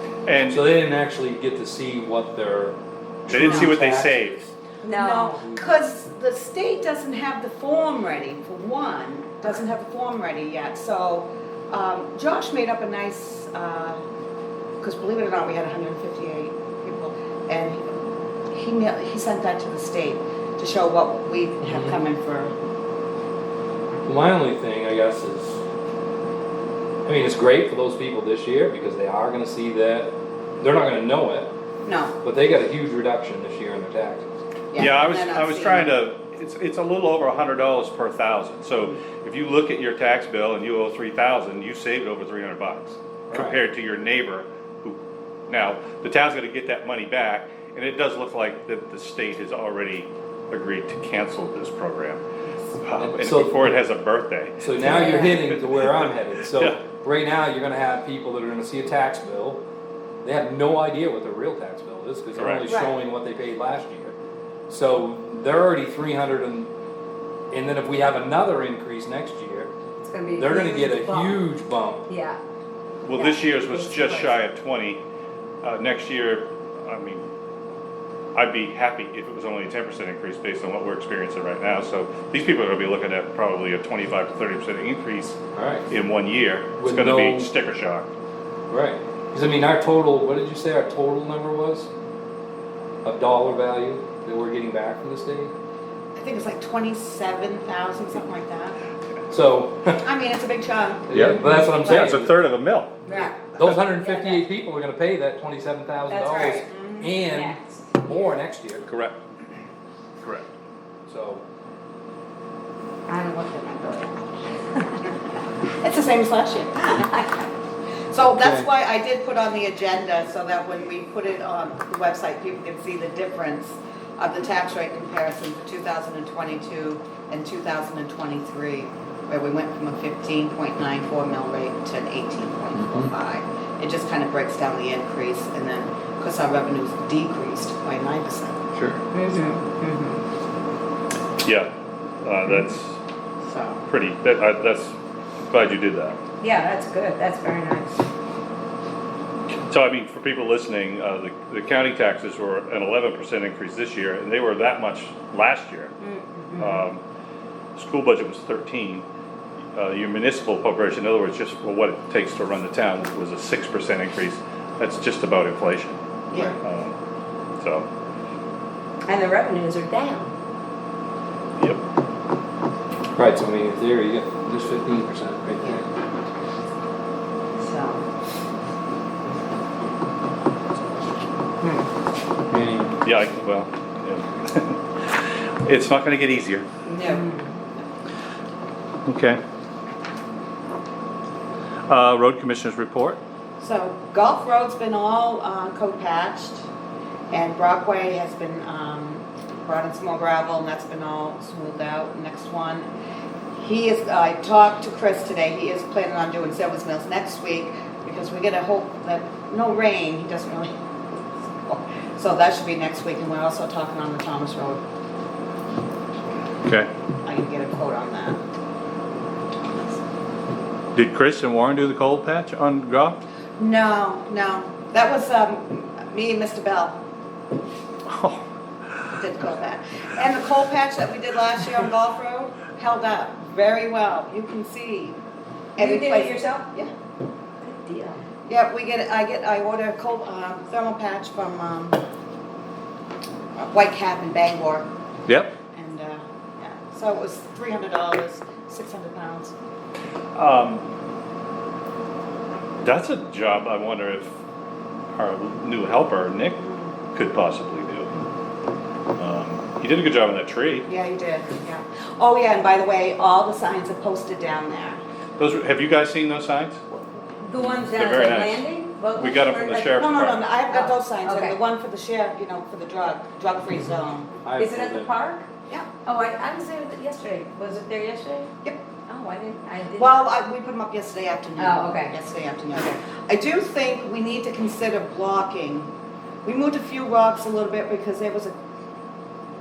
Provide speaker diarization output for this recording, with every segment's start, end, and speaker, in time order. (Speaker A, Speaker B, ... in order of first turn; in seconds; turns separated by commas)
Speaker A: 0.2-0.6, Speaker B: 0.5-4.2, Speaker A: 3.3-4.5, Speaker C: 3.4-3.8, Speaker D: 4.8-5.4, Speaker C: 4.9-14.0, Speaker C: 14.8-17.9, Speaker C: 18.5-22.5, Speaker B: 21.6-22.0, Speaker B: 24.1-25.6, Speaker B: 27.0-31.5, Speaker C: 31.8-32.1, Speaker B: 32.2-34.2, Speaker C: 34.7-36.0, Speaker A: 34.8-45.0, Speaker B: 43.3-43.6, Speaker A: 45.5-52.2, Speaker A: 52.8-56.8, Speaker B: 53.0-53.8, Speaker B: 54.6-59.6, Speaker D: 54.8-55.5, Speaker B: 60.2-64.2, Speaker A: 62.3-62.7, Speaker C: 62.7-62.9, Speaker B: 64.7-66.7, Speaker B: 67.5-69.7, Speaker D: 70.0-71.5, Speaker B: 70.3-72.1, Speaker D: 72.1-72.4, Speaker A: 73.0-75.0, Speaker D: 73.1-74.4, Speaker A: 75.6-77.2, Speaker A: 78.3-85.4, Speaker B: 85.5-85.9, Speaker A: 85.9-88.1, Speaker B: 86.8-87.5, Speaker B: 88.7-91.9, Speaker B: 93.0-95.5, Speaker C: 96.2-98.8, Speaker B: 99.3-100.0, Speaker C: 100.0-102.2, Speaker B: 101.1-102.4, Speaker A: 101.1-103.8, Speaker D: 103.1-104.4, Speaker B: 103.5-108.9, Speaker D: 106.1-106.6, Speaker C: 106.6-107.1, Speaker D: 107.3-107.8, Speaker A: 108.8-109.2, Speaker B: 111.1-111.4, Speaker D: 113.1-115.0, Speaker C: 115.8-117.3, Speaker C: 118.1-138.6, Speaker B: 118.4-118.7, Speaker B: 132.8-133.1, Speaker B: 138.7-139.0, Speaker D: 139.1-140.2, Speaker C: 139.3-139.6, Speaker A: 141.4-141.7, Speaker A: 142.2-143.0, Speaker C: 143.4-143.8, Speaker A: 143.9-144.9, Speaker A: 145.5-146.2, Speaker D: 146.4-148.0, Speaker A: 149.7-155.9, Speaker D: 156.0-156.8, Speaker A: 156.6-157.0, Speaker A: 157.8-159.0, Speaker A: 159.7-166.0, Speaker C: 166.3-166.6, Speaker A: 166.6-166.9, Speaker A: 167.6-167.9, Speaker D: 169.1-170.3, Speaker B: 173.1-175.8, Speaker D: 177.6-178.0, Speaker B: 182.5-183.0, Speaker A: 183.0-186.7, Speaker C: 186.9-187.4, Speaker D: 186.9-187.4, Speaker A: 189.1-189.4, Speaker A: 191.9-193.2, Speaker C: 193.6-196.6, Speaker C: 197.3-202.9, Speaker C: 203.5-214.8, Speaker A: 216.6-216.9, Speaker C: 217.2-218.4, Speaker A: 220.9-223.2, Speaker C: 223.6-227.0, Speaker A: 228.1-228.4, Speaker C: 229.2-235.2, Speaker D: 235.8-236.7, Speaker C: 235.8-236.9, Speaker D: 237.6-238.2, Speaker C: 238.5-242.0, Speaker C: 243.6-244.9, Speaker A: 245.3-245.5, Speaker C: 245.7-249.5, Speaker A: 250.3-250.8, Speaker A: 252.8-254.3, Speaker A: 255.2-256.6, Speaker C: 256.6-256.9, Speaker A: 257.1-258.1, Speaker A: 259.2-260.9, Speaker C: 260.9-265.0, Speaker A: 265.4-266.8, Speaker D: 267.4-270.1, Speaker A: 267.7-268.6, Speaker A: 269.1-270.5, Speaker C: 269.9-274.3, Speaker D: 270.7-271.6, Speaker B: 274.4-275.1, Speaker D: 274.6-275.4, Speaker D: 276.0-278.5, Speaker D: 279.1-280.2, Speaker C: 279.9-285.9, Speaker D: 281.6-282.1, Speaker C: 286.4-288.5